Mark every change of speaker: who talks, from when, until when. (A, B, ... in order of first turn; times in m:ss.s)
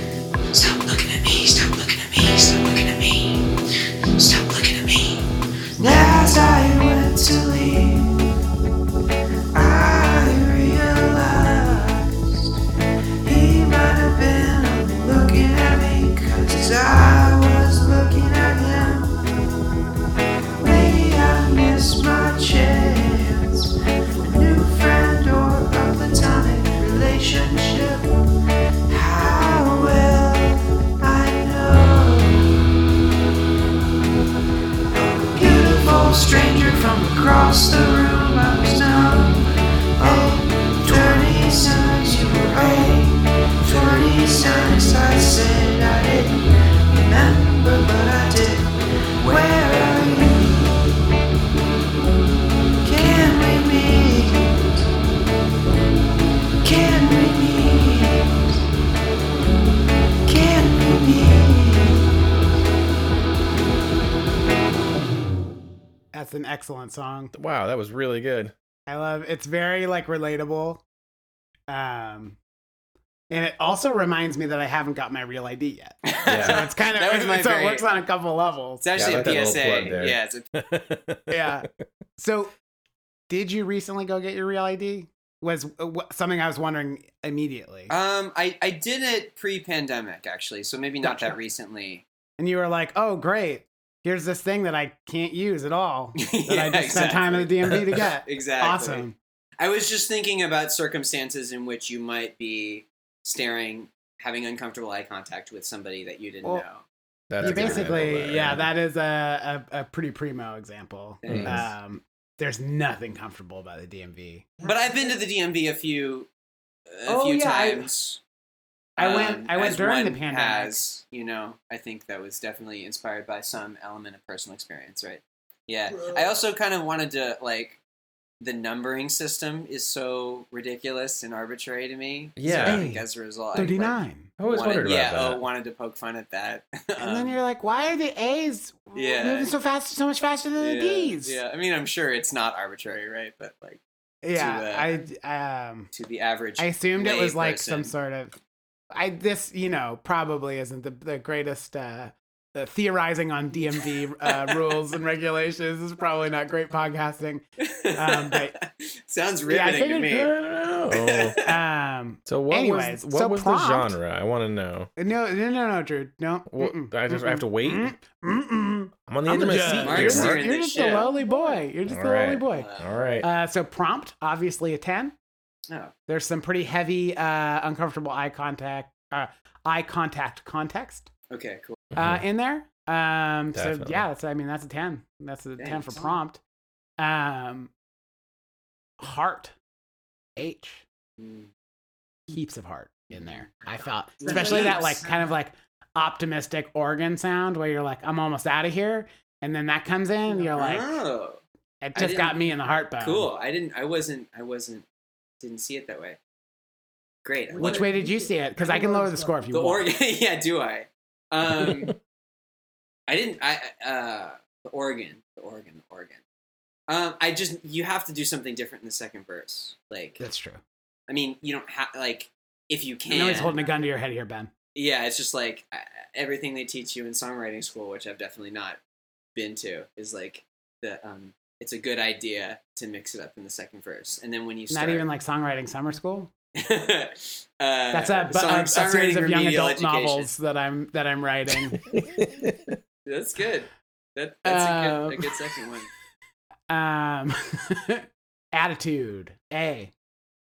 0:00.5-0:03.5 A
0:04.2-0:08.2 A
0:09.5-0:12.5 A
0:13.2-0:19.2 A
0:20.6-0:28.1 A
0:28.9-0:32.7 A
0:34.9-0:50.9 A
0:52.8-0:54.8 A
0:56.6-0:58.6 A
1:00.2-1:02.1 A
1:06.1-1:07.3 B
1:07.3-1:08.5 C
1:08.9-1:10.8 B
1:11.7-1:12.4 B
1:13.3-1:18.8 B
1:16.1-1:17.8 D
1:16.3-1:16.6 C
1:18.8-1:20.4 D
1:18.9-1:21.5 C
1:21.3-1:22.5 B
1:23.3-1:27.9 B
1:27.9-1:32.0 D
1:31.0-1:31.4 B
1:32.4-1:39.2 B
1:36.2-1:39.1 D
1:39.6-1:46.8 D
1:47.3-1:48.7 C
1:47.4-1:54.6 B
1:47.4-1:47.9 D
1:51.2-1:51.7 D
1:51.3-1:51.7 C
1:54.6-1:56.3 D
1:56.9-1:58.2 D
1:57.0-1:57.9 B
1:59.0-2:00.8 B
1:59.0-2:07.8 D
2:08.4-2:17.4 D
2:12.4-2:12.8 C
2:12.6-2:14.3 B
2:14.4-2:15.4 C
2:17.0-2:21.4 B
2:18.9-2:19.5 D
2:20.6-2:23.8 D
2:24.2-2:25.9 B
2:24.3-2:24.9 D
2:25.9-2:27.9 D
2:26.6-2:28.3 B
2:28.9-2:37.4 B
2:34.2-2:34.6 D
2:37.6-2:40.3 D
2:37.9-2:38.6 B
2:39.5-2:40.3 B
2:40.1-2:41.4 C
2:40.9-2:41.4 D
2:41.4-2:44.0 B
2:42.3-2:44.9 C
2:45.0-2:52.7 B
2:46.5-2:47.9 C
2:49.1-2:50.4 C
2:49.8-2:51.1 D
2:51.9-2:53.3 C
2:52.5-2:52.9 D
2:53.2-2:55.1 B
2:56.1-3:01.1 B
3:01.3-3:01.8 D
3:01.9-3:02.2 C
3:01.9-3:06.4 B
3:03.5-3:04.0 C
3:05.6-3:06.0 D
3:07.0-3:07.7 B
3:09.0-3:09.5 B
3:10.4-3:10.8 B
3:11.2-3:11.5 D
3:12.3-3:21.0 B
3:14.2-3:15.0 D
3:20.5-3:21.4 D
3:21.8-3:23.3 B
3:21.9-3:22.4 D
3:23.0-3:24.8 D
3:25.4-3:26.2 D
3:27.2-3:27.9 D
3:27.6-3:29.9 B
3:29.5-3:31.9 D
3:31.6-3:31.9 C
3:33.1-3:36.2 D
3:36.9-3:40.2 D
3:40.2-3:40.6 B
3:41.1-3:43.6 D
3:43.1-3:44.5 B
3:44.7-3:48.8 D
3:49.3-3:55.0 D
3:54.7-3:56.3 B
3:56.5-4:00.3 D
3:57.9-4:01.8 B
4:01.8-4:02.8 C
4:03.0-4:05.9 D
4:04.4-4:05.4 B
4:06.7-4:09.9 B